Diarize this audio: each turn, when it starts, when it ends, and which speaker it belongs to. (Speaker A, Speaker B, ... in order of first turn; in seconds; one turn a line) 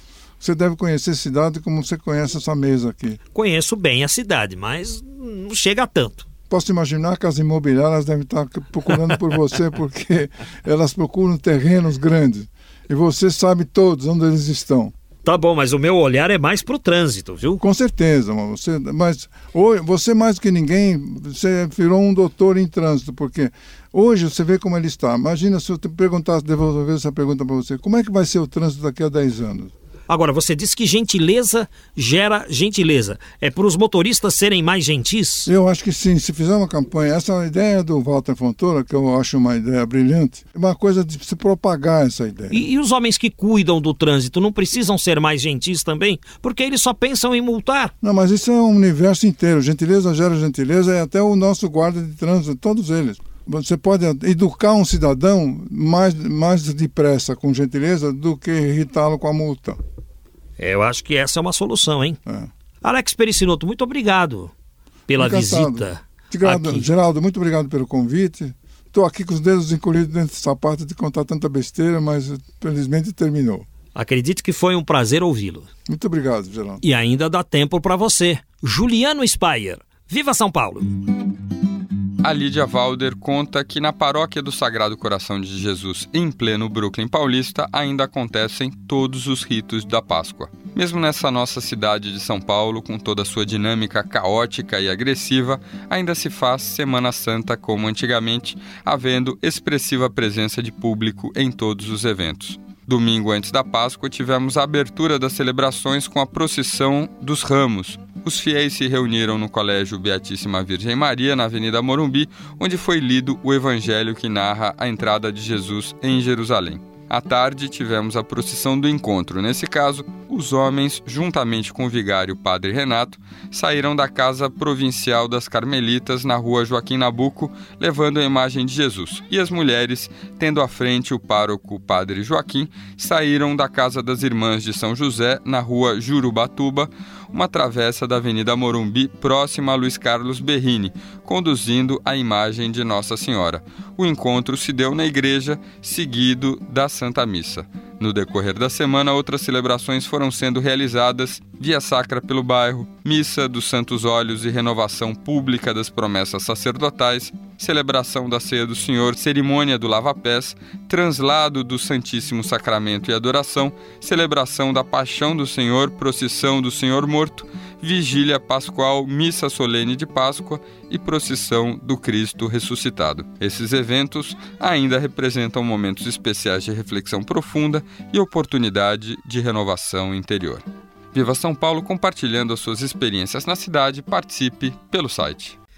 Speaker A: 0.4-3.2
Speaker B: 3.3-6.2
Speaker A: 6.5-14.9
Speaker B: 15.2-17.6
Speaker A: 17.6-29.7
Speaker B: 30.1-35.5
Speaker A: 35.5-42.7
Speaker B: 42.5-47.9
Speaker A: 48.0-59.8
Speaker B: 60.6-62.2
Speaker B: 62.8-64.5
Speaker B: 65.1-66.9
Speaker A: 65.1-73.7
Speaker B: 73.9-75.7
Speaker A: 75.9-76.8
Speaker B: 76.8-81.0
Speaker C: 82.2-185.6